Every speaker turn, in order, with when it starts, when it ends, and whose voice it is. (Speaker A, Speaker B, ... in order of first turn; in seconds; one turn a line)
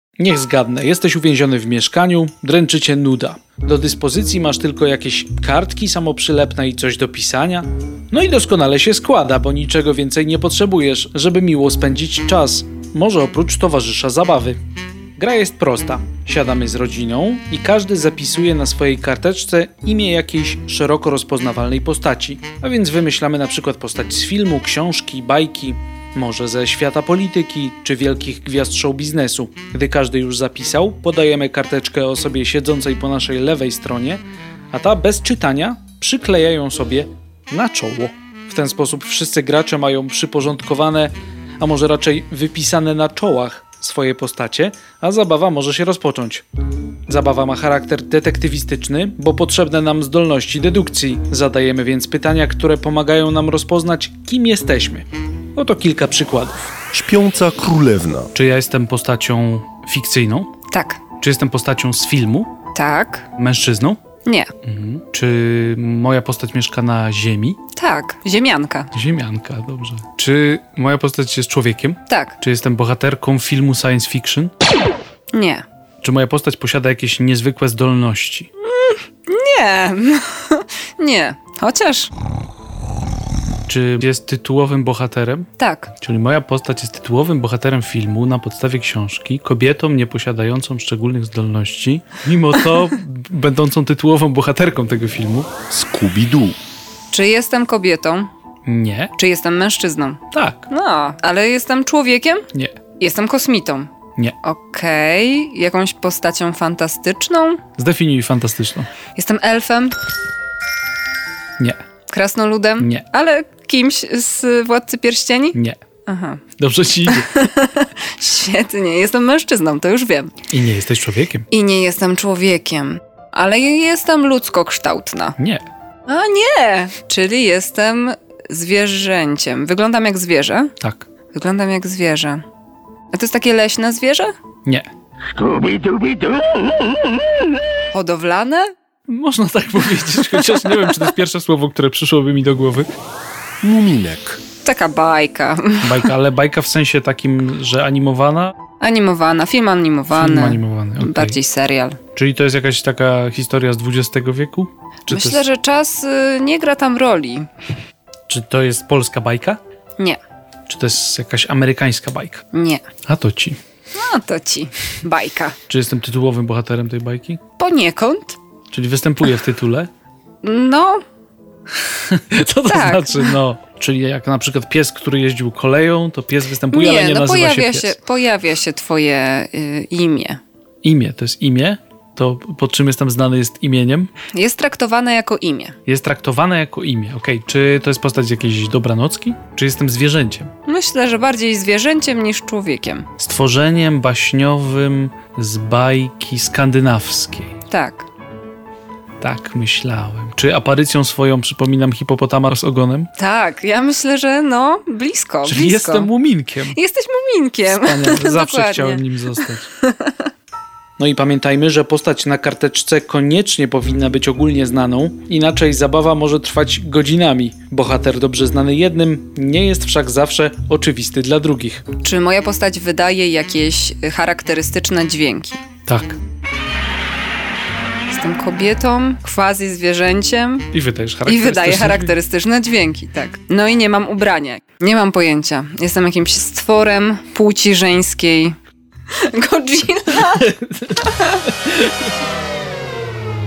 Speaker A: 0.2-14.6
Speaker A: 15.2-46.4
Speaker A: 47.1-56.8
Speaker B: 56.9-58.3
Speaker A: 58.3-60.5
Speaker C: 60.7-61.0
Speaker A: 61.2-62.5
Speaker C: 62.7-63.3
Speaker A: 63.4-64.0
Speaker C: 64.2-64.5
Speaker A: 64.6-67.6
Speaker C: 67.8-68.9
Speaker A: 68.9-74.5
Speaker C: 72.1-72.3
Speaker C: 75.3-75.6
Speaker A: 76.0-78.5
Speaker C: 78.6-82.1
Speaker A: 83.7-85.5
Speaker C: 85.6-85.9
Speaker A: 86.0-95.5
Speaker B: 95.7-96.5
Speaker C: 97.1-98.3
Speaker A: 98.7-99.1
Speaker C: 99.2-102.5
Speaker A: 100.3-100.7
Speaker C: 103.0-103.9
Speaker C: 104.4-107.6
Speaker A: 107.8-108.9
Speaker C: 109.1-110.0
Speaker C: 112.1-116.4
Speaker A: 115.5-115.8
Speaker A: 116.6-117.4
Speaker C: 117.1-120.3
Speaker A: 120.5-121.5
Speaker C: 121.5-125.3
Speaker A: 125.4-125.6
Speaker C: 126.1-130.7
Speaker A: 130.8-131.1
Speaker C: 131.3-132.4
Speaker C: 133.1-134.3
Speaker B: 135.4-136.6
Speaker C: 137.9-138.7
Speaker A: 139.1-142.9
Speaker B: 143.6-144.4
Speaker C: 144.6-146.0
Speaker A: 145.8-148.5
Speaker C: 148.8-152.0
Speaker A: 150.1-151.4
Speaker A: 152.1-155.4
Speaker C: 155.1-157.5
Speaker A: 158.3-159.6
Speaker A: 160.7-162.4
Speaker C: 162.5-162.8
Speaker A: 163.0-163.6
Speaker C: 163.9-165.6
Speaker A: 165.7-167.4
Speaker C: 167.6-168.4
Speaker A: 168.7-169.9
Speaker C: 170.4-171.0
Speaker A: 171.8-178.0
Speaker C: 172.7-173.4
Speaker C: 176.7-180.4
Speaker A: 180.8-184.1
Speaker C: 184.3-185.8
Speaker A: 185.9-190.5
Speaker C: 190.7-193.1
Speaker A: 193.2-197.5
Speaker C: 197.7-198.0
Speaker A: 199.2-203.1
Speaker C: 203.2-206.1
Speaker A: 205.4-206.8
Speaker C: 206.7-209.0
Speaker A: 207.6-209.7
Speaker C: 209.7-210.3
Speaker A: 211.0-221.8
Speaker C: 222.0-225.6
Speaker A: 225.8-226.2
Speaker C: 228.1-230.7
Speaker A: 230.7-232.2
Speaker C: 231.2-238.5
Speaker C: 239.1-241.5
Speaker A: 240.5-240.9
Speaker A: 241.6-241.9